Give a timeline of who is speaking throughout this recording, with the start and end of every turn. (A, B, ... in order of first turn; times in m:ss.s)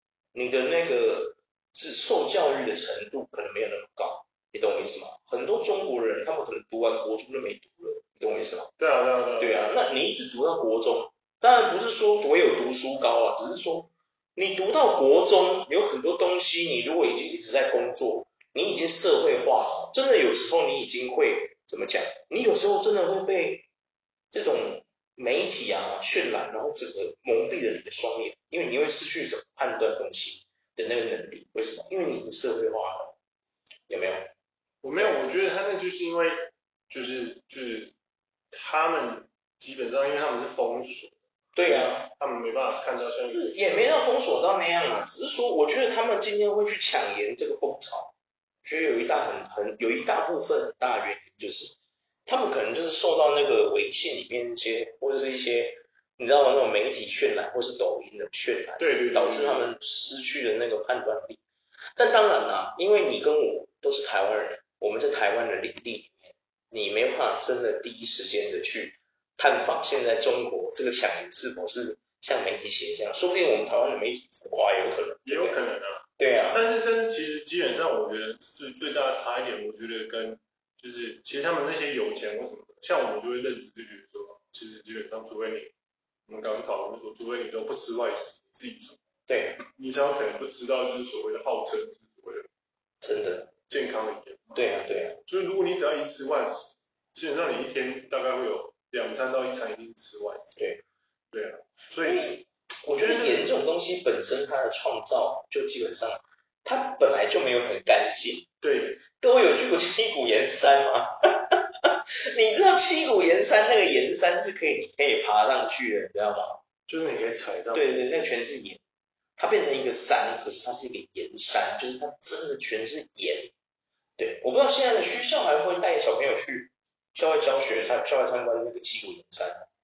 0:00.3-0:08.7 A
0:08.8-0:09.7 B
0:09.4-0:23.6 A
0:24.3-0:33.1 A
0:33.9-0:34.3 A
0:34.8-0:37.9 B
0:38.5-0:43.6 B
0:41.6-0:42.1 A
0:43.2-0:48.1 A
0:48.6-0:51.7 A
0:52.2-1:01.4 A
0:58.8-0:59.7 B
1:02.0-1:15.6 A
1:15.2-1:25.7 B
1:16.2-1:16.6 A
1:26.3-1:29.0 B
1:29.3-1:29.6 A
1:29.8-1:32.5 B
1:33.0-1:33.5 A
1:33.7-1:40.6 B
1:34.5-1:35.2 A
1:40.6-1:40.8 A
1:41.3-1:42.3 B
1:42.0-1:48.5 A
1:43.0-1:43.5 B
1:48.6-1:49.0 B
1:49.2-1:56.6 A
1:56.9-1:58.0 B
1:57.7-1:58.8 A
1:59.4-2:03.5 A
2:04.2-2:09.6 A